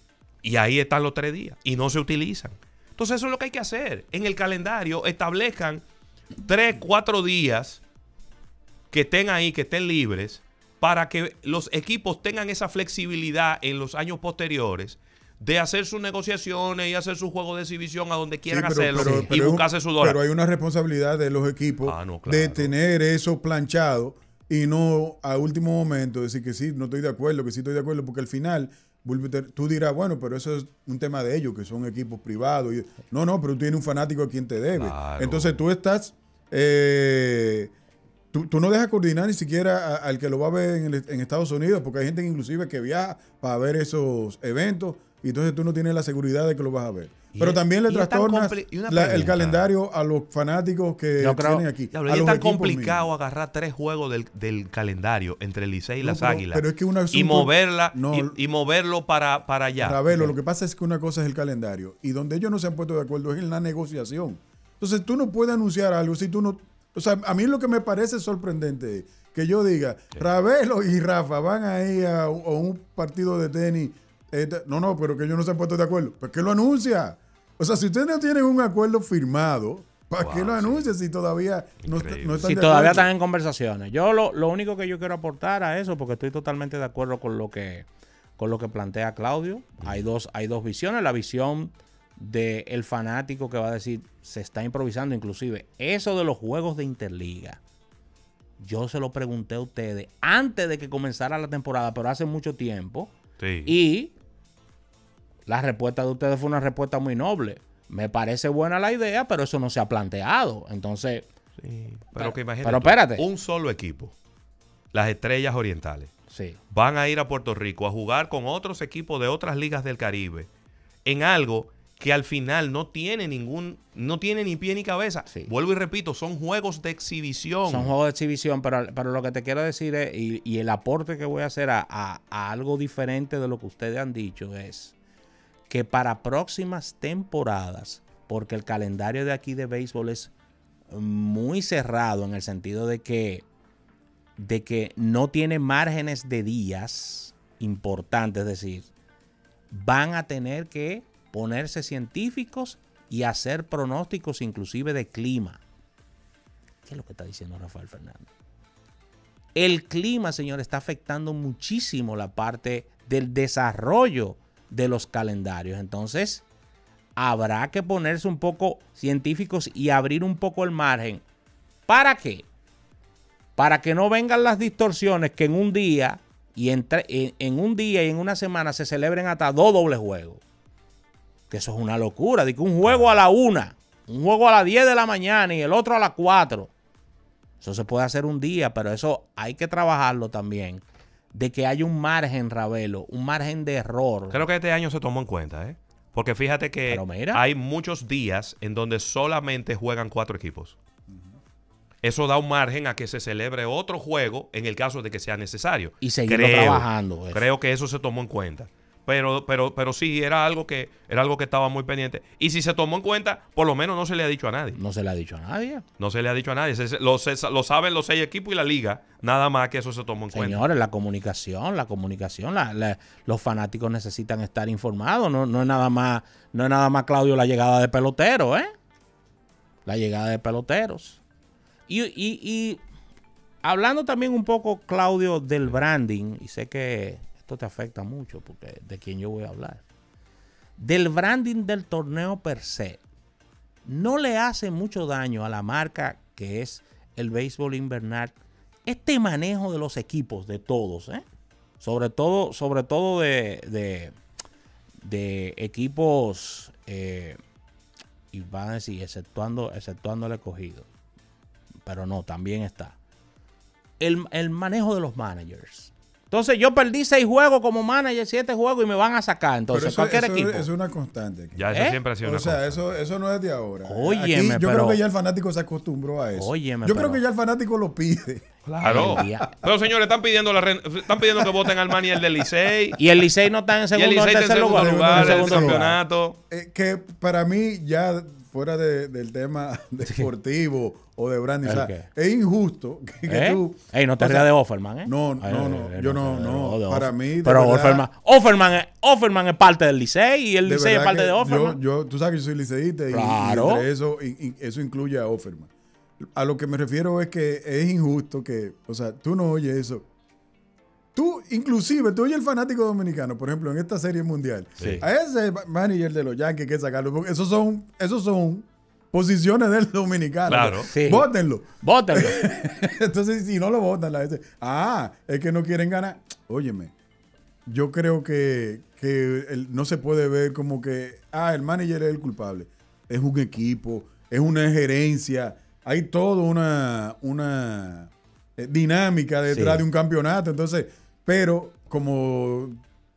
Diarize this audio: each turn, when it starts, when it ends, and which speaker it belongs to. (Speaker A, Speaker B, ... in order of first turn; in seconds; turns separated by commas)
Speaker A: 0.4-5.8, Speaker A: 6.4-7.8, Speaker A: 8.9-20.2, Speaker B: 18.5-37.7, Speaker C: 19.0-19.3, Speaker A: 21.8-22.7, Speaker A: 34.7-35.6, Speaker B: 38.3-53.1, Speaker A: 47.3-49.7, Speaker C: 51.2-51.7, Speaker A: 51.9-60.1, Speaker B: 56.0-58.4, Speaker B: 59.8-83.1, Speaker A: 80.2-80.9, Speaker A: 81.8-82.5, Speaker C: 82.4-97.6, Speaker A: 89.8-90.0, Speaker C: 98.6-103.1, Speaker A: 103.4-103.8, Speaker C: 103.6-104.1, Speaker C: 105.5-111.3, Speaker A: 111.6-114.1, Speaker C: 112.2-113.2, Speaker A: 114.9-116.1, Speaker C: 116.3-116.6, Speaker A: 116.7-120.5, Speaker A: 121.0-127.9, Speaker C: 127.7-134.9, Speaker C: 135.7-140.3, Speaker C: 140.9-143.5, Speaker C: 144.4-148.9, Speaker C: 149.7-155.6, Speaker C: 156.8-158.3, Speaker C: 159.5-166.4, Speaker C: 167.2-171.2, Speaker C: 171.9-172.5, Speaker C: 173.6-180.4, Speaker C: 181.5-186.7, Speaker A: 182.9-183.2, Speaker C: 187.6-194.5, Speaker A: 194.3-200.8, Speaker C: 196.9-197.4, Speaker B: 201.1-201.4, Speaker A: 202.0-214.8, Speaker C: 206.0-207.5, Speaker C: 214.7-215.8, Speaker A: 216.0-220.6, Speaker C: 220.3-228.7, Speaker C: 229.8-231.2, Speaker C: 231.9-232.8, Speaker C: 233.6-239.8, Speaker C: 240.8-243.0, Speaker C: 243.8-251.2, Speaker C: 251.8-254.2, Speaker C: 255.0-257.4, Speaker C: 258.3-260.9, Speaker C: 261.9-263.0, Speaker C: 264.0-270.7, Speaker B: 269.7-279.5, Speaker A: 271.5-272.9, Speaker C: 271.7-272.0, Speaker C: 273.8-275.0, Speaker C: 276.3-277.2, Speaker A: 278.6-283.0, Speaker C: 278.8-279.5, Speaker B: 281.2-282.1, Speaker C: 283.0-286.0, Speaker A: 283.9-286.4, Speaker B: 284.7-285.9, Speaker B: 286.5-294.5, Speaker C: 291.6-292.1, Speaker C: 293.2-301.8, Speaker B: 295.0-298.1, Speaker B: 300.6-310.1, Speaker C: 303.1-303.9, Speaker B: 311.1-326.9, Speaker C: 314.8-315.1, Speaker A: 320.5-320.9, Speaker C: 320.9-321.3, Speaker C: 321.8-322.4, Speaker B: 327.6-342.8, Speaker C: 339.5-339.9